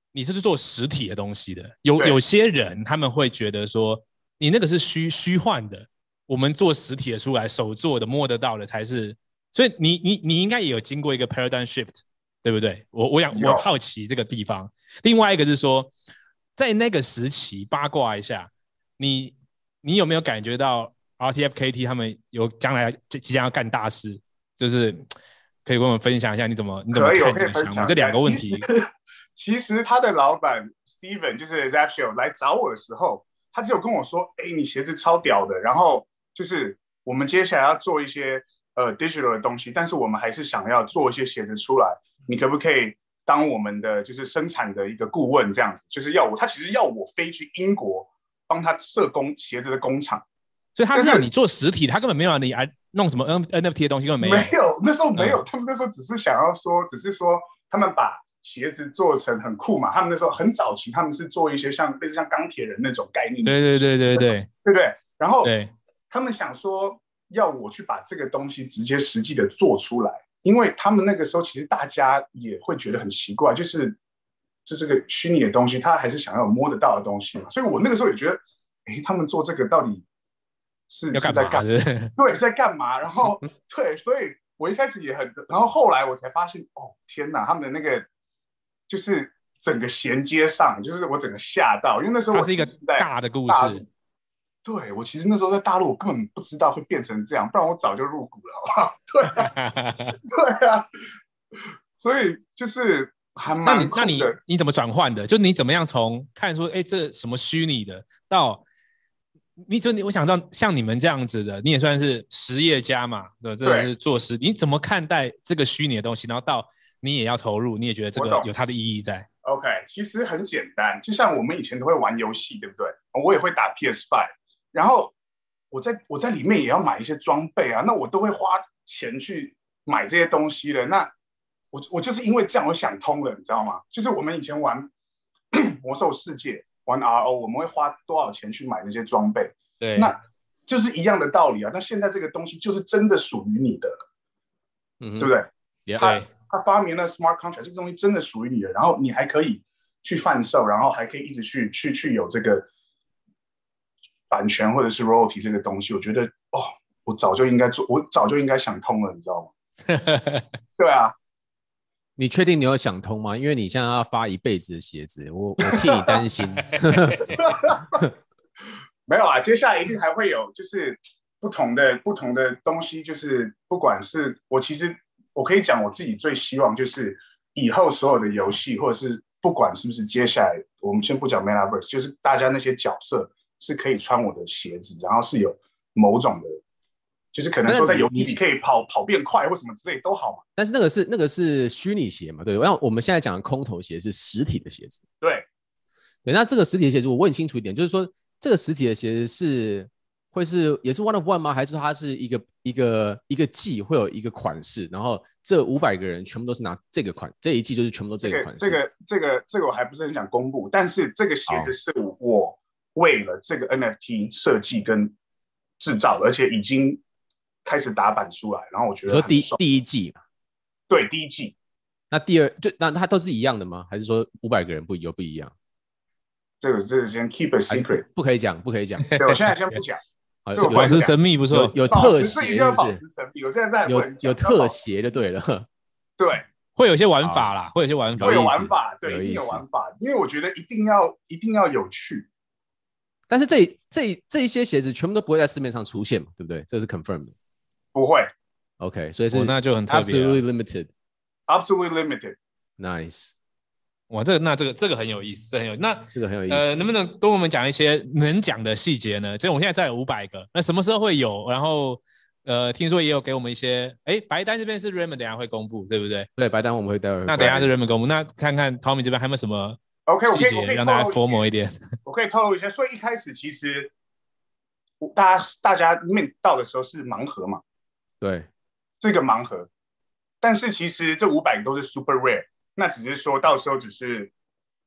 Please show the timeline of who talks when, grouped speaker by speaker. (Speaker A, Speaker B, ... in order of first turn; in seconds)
Speaker A: 0.1-15.9, 16.6-25.0, 25.6-28.6, 50.8-54.5, 55.2-55.4, 63.5-64.5, 65.4-65.7, 81.1-82.1, 92.3-93.8, 99.4-100.2, 103.7-108.6, 109.6-119.3, 139.8-140.1, 146.0-146.3, 159.9-160.4, 229.1-229.8, 230.5-231.9, 236.8-238.5, 249.3-250.4, 254.1-266.3, 267.3-271.7
Speaker B: 13.3-13.7, 26.9-50.2, 50.9-51.3, 54.2-65.5, 66.1-74.0, 74.7-80.1, 80.9-81.6, 82.2-88.1, 88.9-93.8, 94.7-99.5, 100.2-100.9, 102.0-104.4, 113.6-113.9, 118.2-118.5, 119.4-125.1, 125.7-131.1, 131.7-134.9, 135.5-140.2, 140.7-143.9, 145.2-152.7, 154.3-159.5, 160.8-161.2, 165.7-166.2, 167.3-168.0, 169.1-186.6, 187.3-190.4, 195.2-195.5, 208.2-215.2, 215.8-217.0, 217.7-219.6, 220.9-221.6, 226.6-228.1, 229.2-231.1, 231.9-234.8, 236.2-236.4, 238.2-242.3, 247.9-248.3, 251.5-252.4, 267.4-267.7, 270.1-271.5, 272.1-273.9, 275.0-277.6, 279.0-279.7, 280.4-284.3
Speaker C: 145.0-145.3, 145.9-146.2, 162.2-167.3, 187.7-188.4, 190.6-195.0, 196.2-208.8, 211.5-211.7, 219.1-220.2, 222.1-225.5, 227.7-229.1, 230.4-233.0, 233.9-235.7, 237.2-237.5, 238.2-239.6, 243.3-247.3, 248.8-250.9, 252.8-253.3, 256.1-256.7, 266.4-267.7, 278.2-278.5